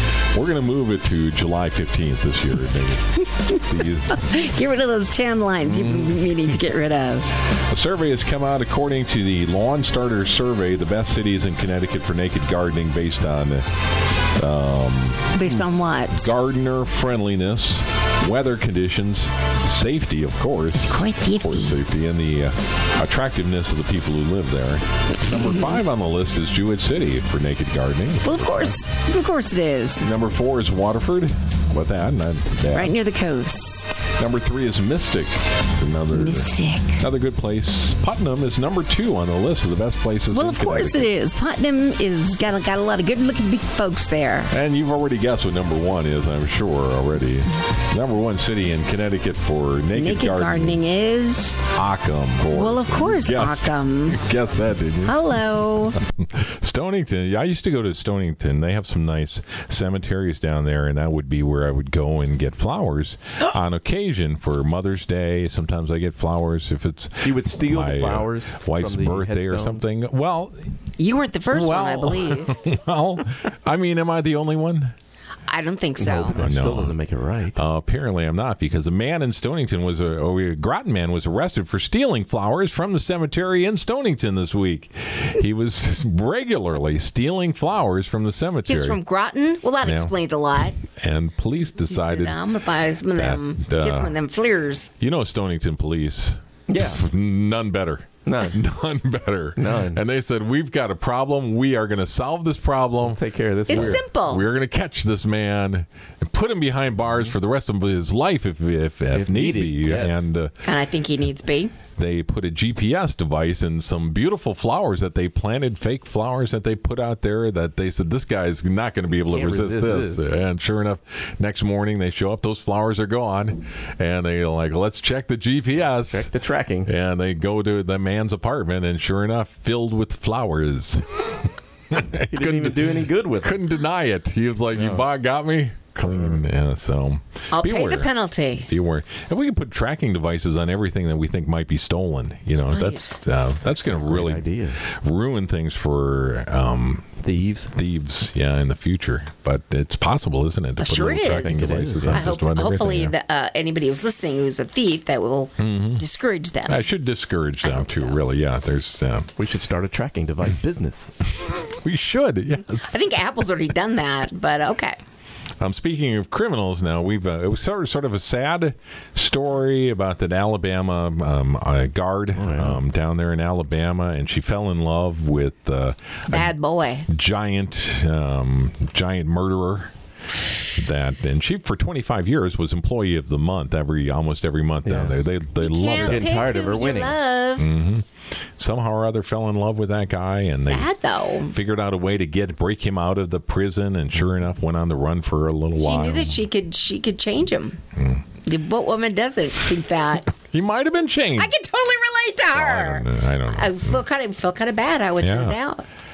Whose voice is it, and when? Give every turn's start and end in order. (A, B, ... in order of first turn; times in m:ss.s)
0:00.3-0:04.3 A
0:04.1-0:07.3 B
0:05.6-0:06.3 A
0:07.5-0:13.7 A
0:14.3-0:28.8 A
0:15.3-0:16.3 B
0:20.8-0:21.8 B
0:25.2-0:25.8 B
0:28.2-0:30.0 B
0:30.0-0:32.9 A
0:32.7-0:34.1 B
0:34.2-0:41.1 A
0:36.1-0:37.0 B
0:40.3-0:44.5 B
0:44.5-0:50.8 A
0:49.9-0:51.6 B
0:51.7-0:55.2 A
0:52.5-0:54.3 B
0:55.0-0:56.0 B
0:56.0-1:10.7 A
1:07.2-1:09.8 C
1:11.0-1:12.6 B
1:11.5-1:14.9 A
1:15.5-1:16.5 B
1:16.0-1:17.6 C
1:16.4-1:16.9 A
1:17.5-1:29.0 A
1:28.7-1:30.8 B
1:29.8-1:30.1 A
1:30.8-1:32.4 A
1:31.7-1:34.9 B
1:33.1-1:34.2 A
1:35.0-1:50.5 A
1:36.7-1:37.0 C
1:38.2-1:38.6 C
1:39.6-1:40.0 C
1:43.0-1:44.0 C
1:43.7-1:44.4 B
1:49.1-1:50.3 C
1:50.6-1:51.7 B
1:52.0-2:06.3 A
1:59.3-2:00.3 C
2:06.0-2:06.9 C
2:06.8-2:18.1 A
2:12.3-2:13.6 C
2:14.7-2:15.1 C
2:17.5-2:18.7 B
2:18.7-2:33.1 A
2:22.7-2:23.1 B
2:23.8-2:24.8 C
2:27.2-2:27.7 C
2:30.8-2:36.8 B
2:31.4-2:32.3 C
2:35.6-2:36.0 A
2:36.6-2:39.3 A
2:37.6-2:38.2 B
2:39.4-2:41.1 C
2:41.4-2:43.0 A
2:42.9-2:45.0 B
2:45.6-2:56.5 A
2:52.3-2:52.8 C
2:56.3-2:57.1 B
2:57.1-2:59.9 A
3:00.7-3:06.4 A
3:04.8-3:05.2 C
3:05.6-3:07.7 B
3:06.0-3:07.2 C
3:07.6-3:10.9 A
3:10.6-3:11.5 B
3:11.5-3:16.4 A
3:15.8-3:17.8 B
3:18.0-3:18.2 A
3:18.4-3:20.3 B
3:20.3-3:21.5 A
3:21.4-3:25.8 B
3:22.5-3:24.0 A
3:25.2-3:25.6 A